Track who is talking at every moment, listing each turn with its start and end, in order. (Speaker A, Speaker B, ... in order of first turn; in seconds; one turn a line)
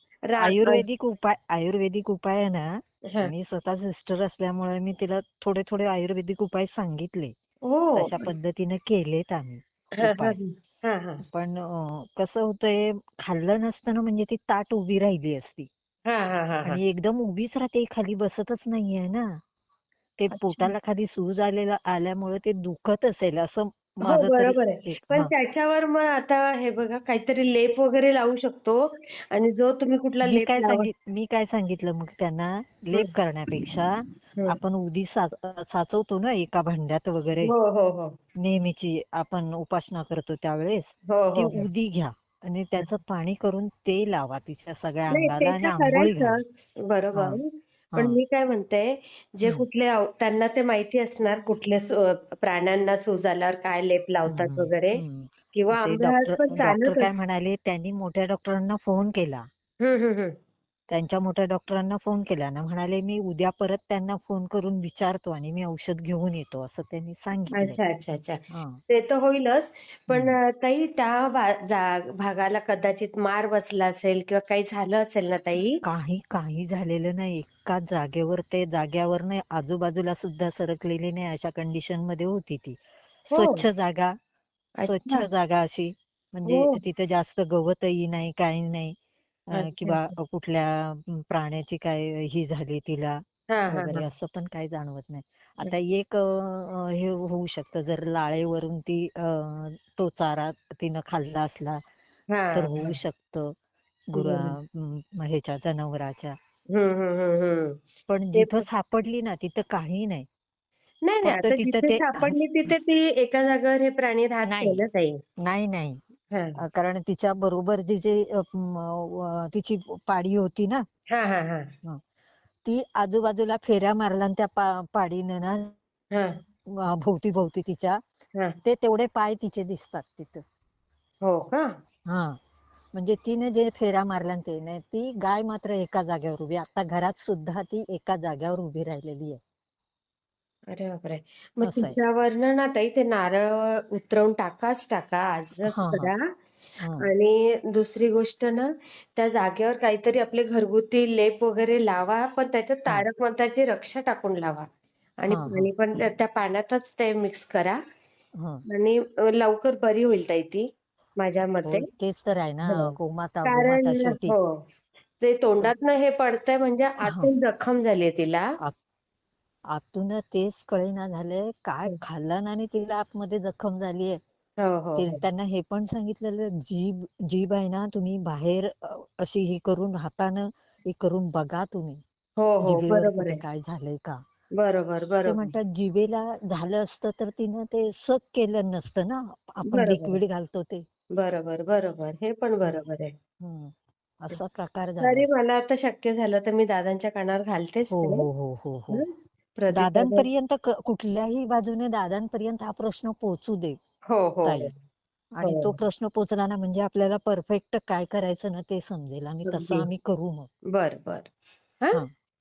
Speaker A: 0.3-0.8
Speaker B: 0.4-7.3
Speaker A: 7.7-8.3
Speaker B: 8.0-10.4
Speaker A: 10.0-11.2
Speaker B: 11.2-15.7
Speaker A: 16.1-16.8
Speaker B: 16.6-19.4
Speaker B: 20.2-25.3
Speaker A: 20.3-20.7
Speaker A: 24.0-30.9
Speaker B: 30.2-37.5
Speaker A: 37.4-38.1
Speaker B: 38.4-46.4
Speaker A: 41.1-41.6
Speaker A: 45.1-55.0
Speaker B: 47.1-47.4
Speaker B: 54.3-59.4
Speaker A: 55.5-57.1
Speaker A: 59.8-60.3
Speaker B: 60.9-67.8
Speaker A: 67.6-75.8
Speaker B: 68.5-68.8
Speaker B: 70.1-70.4
Speaker B: 75.8-82.8
Speaker B: 83.3-84.1
Speaker A: 83.3-83.6
Speaker A: 84.8-85.2
Speaker B: 84.8-89.0
Speaker A: 86.5-86.8
Speaker B: 89.5-101.8
Speaker A: 89.5-90.1
Speaker A: 93.5-94.0
Speaker A: 102.3-103.0
Speaker B: 102.5-103.5
Speaker B: 104.1-106.3
Speaker A: 104.2-104.5
Speaker A: 106.7-107.8
Speaker B: 108.1-110.3
Speaker A: 108.4-108.7
Speaker A: 111.0-115.2
Speaker B: 111.2-112.3
Speaker B: 114.4-114.8
Speaker B: 115.4-116.0
Speaker B: 116.6-120.8
Speaker A: 121.1-121.7
Speaker B: 122.6-125.7
Speaker A: 126.1-126.4
Speaker B: 126.7-128.0
Speaker B: 128.6-130.4
Speaker A: 131.2-131.7
Speaker B: 132.1-132.4
Speaker B: 132.9-139.4
Speaker A: 140.7-146.2
Speaker B: 141.6-142.0
Speaker B: 145.7-146.1
Speaker A: 147.0-154.6
Speaker A: 155.2-157.8
Speaker B: 155.3-155.7
Speaker A: 158.7-160.6
Speaker A: 161.2-161.8
Speaker B: 161.7-164.3
Speaker A: 163.4-164.4
Speaker A: 165.2-168.4
Speaker B: 167.1-167.3
Speaker B: 169.7-174.2
Speaker A: 174.6-175.2
Speaker B: 175.0-182.0
Speaker A: 182.4-183.4
Speaker B: 182.6-184.2
Speaker A: 184.6-185.5
Speaker B: 185.2-190.8
Speaker A: 189.7-190.2
Speaker A: 191.2-193.1
Speaker B: 193.4-195.3
Speaker A: 195.0-198.2
Speaker B: 197.9-199.0
Speaker A: 198.9-200.2
Speaker B: 199.7-203.8
Speaker A: 204.1-204.7
Speaker B: 204.4-204.7
Speaker B: 205.3-210.5
Speaker A: 205.4-205.7
Speaker A: 209.5-209.8
Speaker A: 210.7-211.3